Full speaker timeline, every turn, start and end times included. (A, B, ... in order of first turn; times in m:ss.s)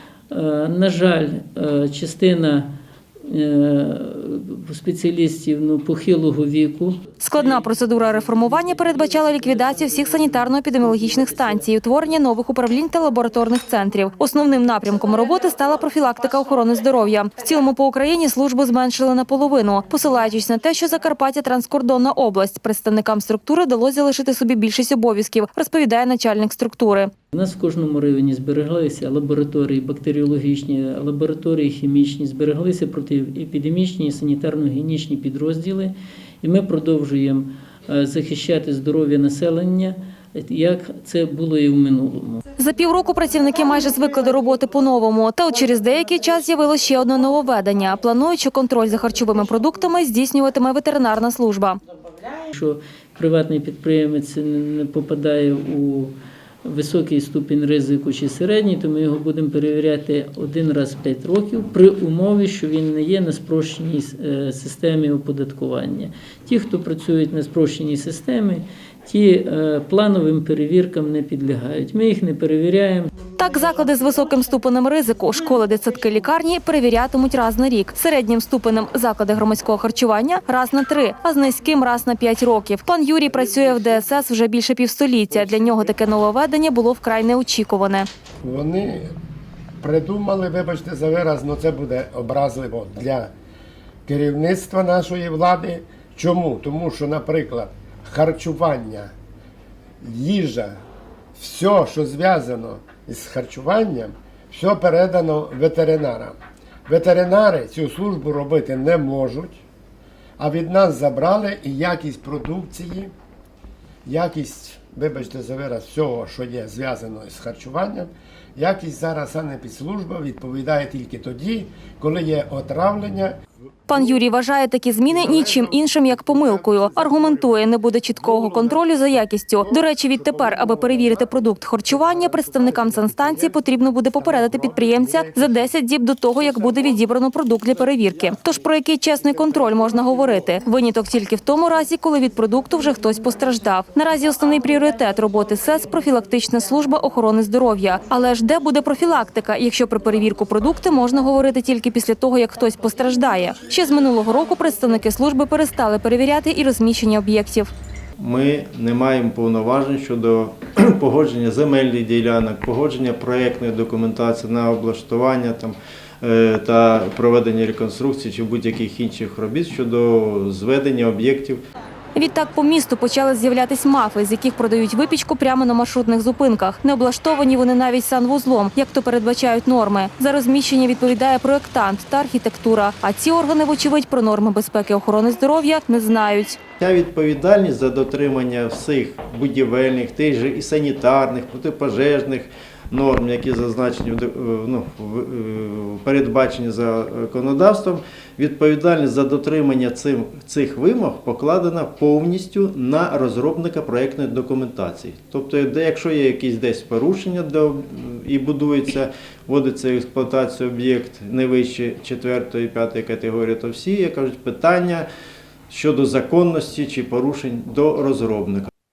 0:00.3-0:02.7 A
0:03.2-0:07.2 A
0:07.2-0:27.1 B
0:27.3-0:42.4 A
0:42.6-0:51.8 B
0:52.5-1:13.1 A
1:13.4-1:28.1 B
1:28.4-1:29.1 C
1:29.8-1:33.3 C
1:34.1-1:39.1 C
1:40.0-1:40.8 C
1:41.4-1:49.6 C
1:50.4-1:53.1 C
1:54.1-2:03.4 C
2:03.9-2:37.7 B
2:05.1-2:07.7 C
2:08.2-2:08.9 C
2:09.6-2:11.2 C
2:11.8-2:13.6 C
2:14.2-2:15.6 C
2:38.2-2:51.6 D
2:52.2-3:06.6 B
3:06.8-3:35.1 D
3:35.7-3:38.7 D